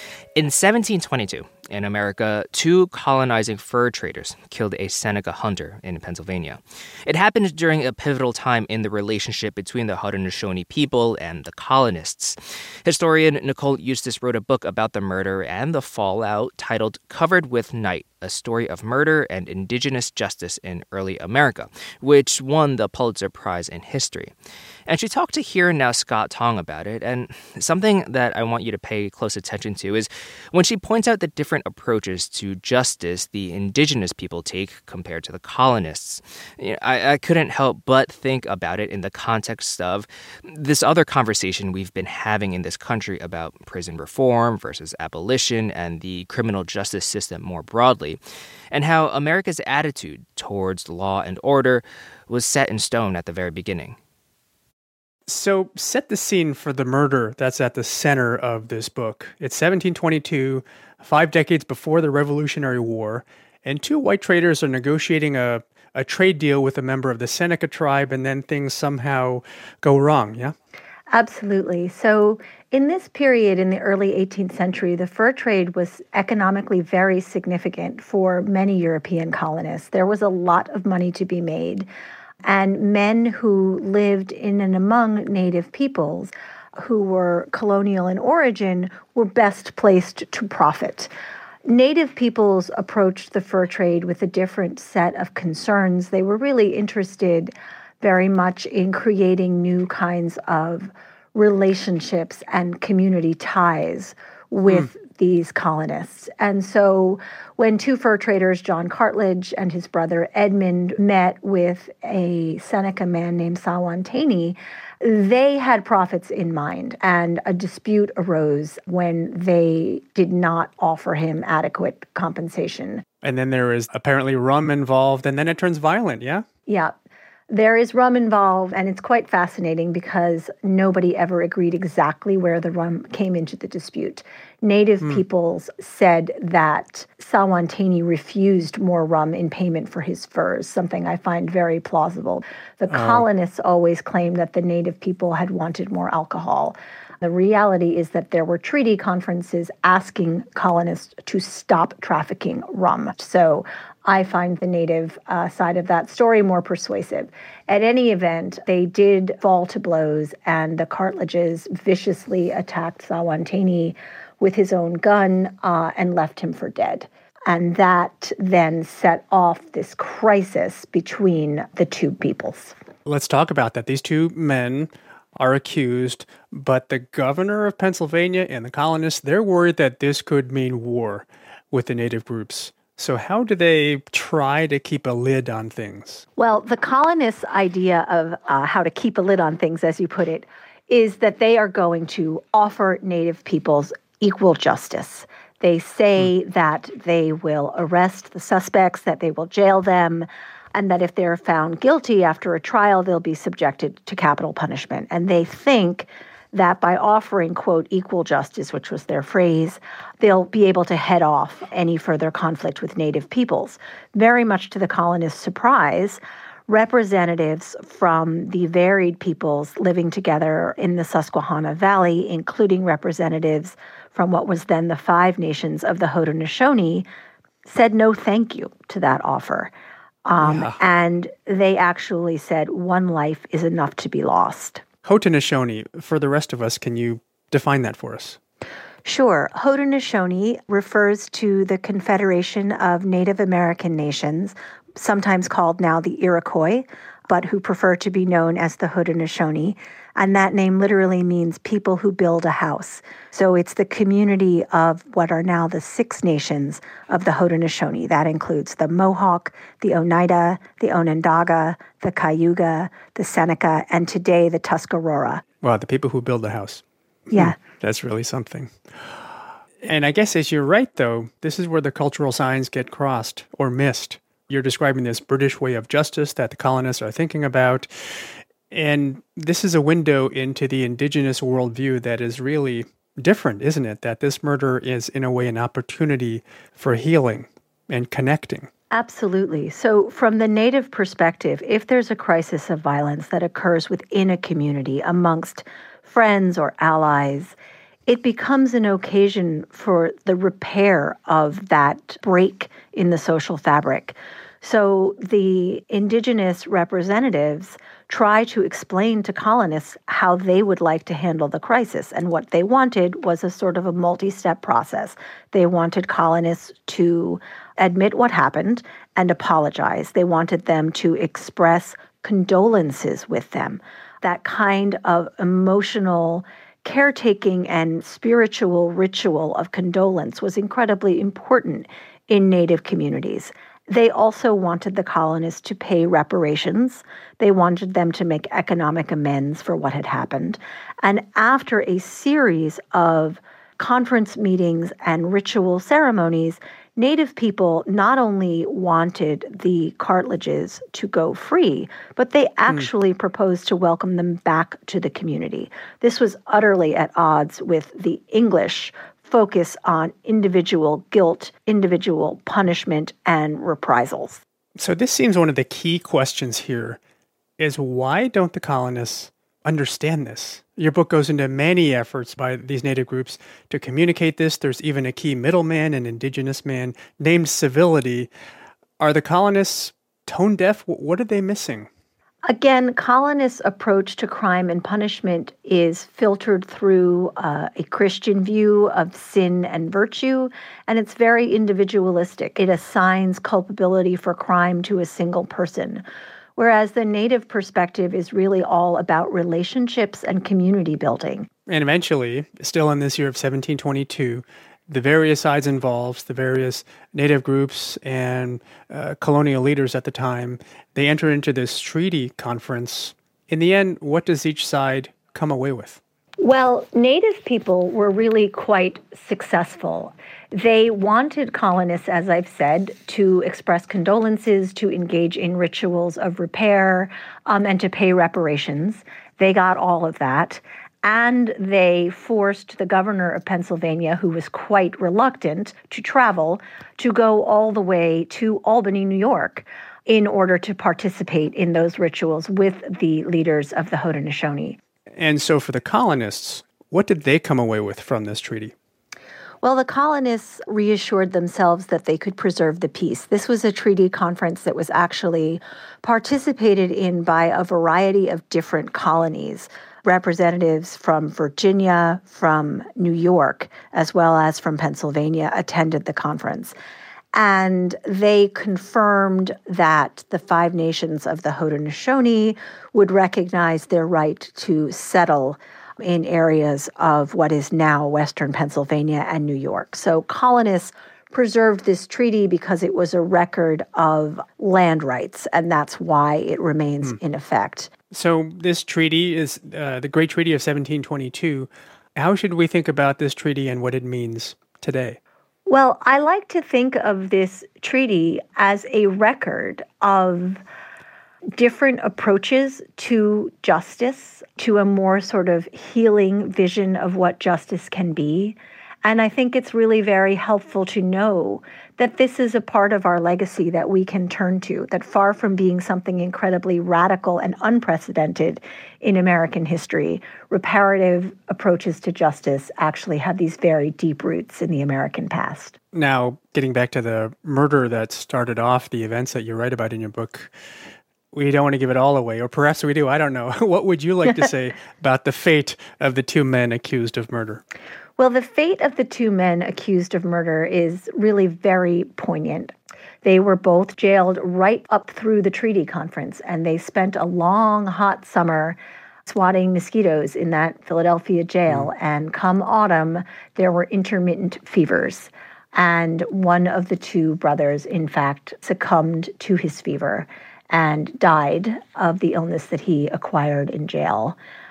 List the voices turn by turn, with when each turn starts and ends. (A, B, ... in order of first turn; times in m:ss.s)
0:00.4-0:24.3 A
0:24.9-0:48.2 A
0:48.7-0:54.0 A
0:55.3-1:10.5 B
1:11.1-1:21.9 C
1:22.4-1:31.1 C
1:31.7-2:03.0 C
2:03.2-2:06.4 B
2:06.6-2:07.0 C
2:07.5-2:52.7 C
2:22.9-2:23.2 B
2:53.0-3:06.2 B
3:06.4-3:47.1 C
3:47.6-3:49.7 C
3:50.2-3:54.8 C
3:50.4-3:50.8 B
3:55.0-3:58.4 B
3:59.0-4:25.4 C
4:25.6-4:28.7 B
4:27.3-4:27.6 C
4:29.8-4:48.7 B
4:48.9-4:57.6 C
4:58.1-6:04.4 C
6:04.8-6:07.0 B
6:07.6-6:18.3 B
6:19.0-6:21.9 B
6:22.5-6:36.0 C
6:36.6-6:41.5 C
6:41.7-6:56.0 B
6:56.4-7:24.8 C
7:25.2-7:28.7 B
7:29.6-7:46.7 C
7:47.3-8:07.9 C
8:08.1-8:15.2 B
8:15.7-8:20.6 C
8:21.6-8:45.8 C
8:45.9-8:50.5 B
8:51.3-8:57.6 B
8:58.2-9:02.7 C
9:03.2-9:24.4 C